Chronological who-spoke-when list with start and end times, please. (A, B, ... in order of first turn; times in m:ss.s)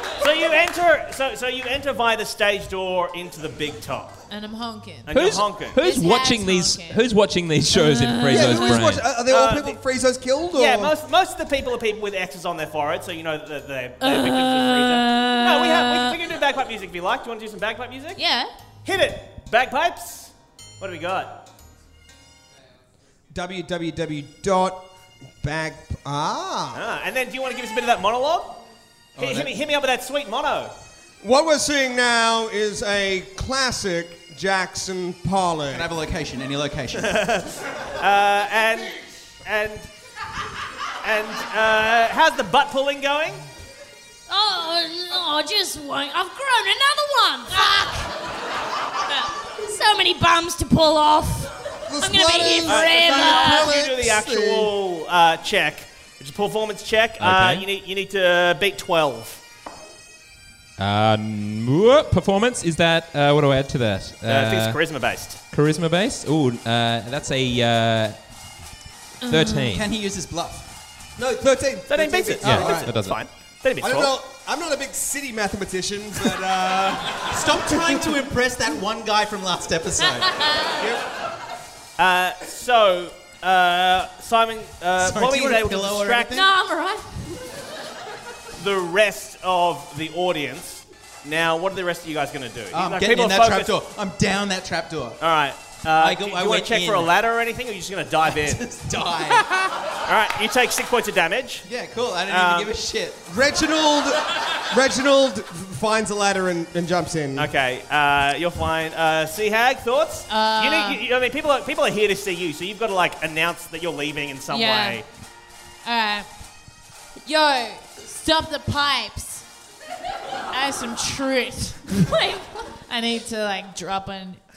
0:00.2-0:04.2 A
0:04.3-0:05.2 B
0:05.1-0:05.8 A
0:05.1-0:09.1 C
0:05.7-0:07.0 B
0:07.9-0:08.5 B
0:08.3-0:10.9 D
0:09.2-0:09.8 A
0:10.5-0:18.2 A
0:14.1-0:14.6 E
0:14.4-0:14.9 B
0:18.2-0:18.5 B
0:18.8-0:21.4 A
0:23.3-0:24.9 D
0:25.4-0:26.8 D
0:26.7-0:28.6 A
0:29.2-0:29.5 F
0:29.2-0:30.7 A
0:31.2-0:35.9 D
0:35.7-0:37.2 F
0:37.0-0:39.9 A
0:41.0-0:43.4 A
0:44.3-0:48.1 E
0:49.6-0:53.8 E
0:51.9-0:54.7 D
0:52.6-0:59.4 A
0:57.2-0:57.7 C
1:00.8-1:04.8 C
1:04.3-1:05.4 A
1:05.5-1:08.3 C
1:09.2-1:09.7 B
1:09.3-1:09.9 C
1:09.7-1:10.7 F
1:11.2-1:12.9 D
1:11.9-1:14.2 A
1:12.4-1:13.2 C
1:12.4-1:12.9 F
1:13.8-1:18.0 D
1:17.3-1:21.0 F
1:20.3-1:20.8 B
1:22.0-1:26.4 A
1:25.0-1:26.5 F
1:26.3-1:27.1 B
1:28.6-1:33.8 A
1:32.7-1:35.2 F
1:35.2-1:38.7 A
1:36.0-1:37.1 F
1:38.3-1:39.5 F
1:40.0-1:41.7 A
1:41.6-1:43.2 F
1:42.3-1:42.7 A
1:43.3-1:47.5 D
1:47.4-1:55.0 A
1:50.3-1:51.0 B
1:54.5-1:55.0 B
1:55.8-1:56.3 B
1:57.2-1:59.5 B
2:00.5-2:04.4 B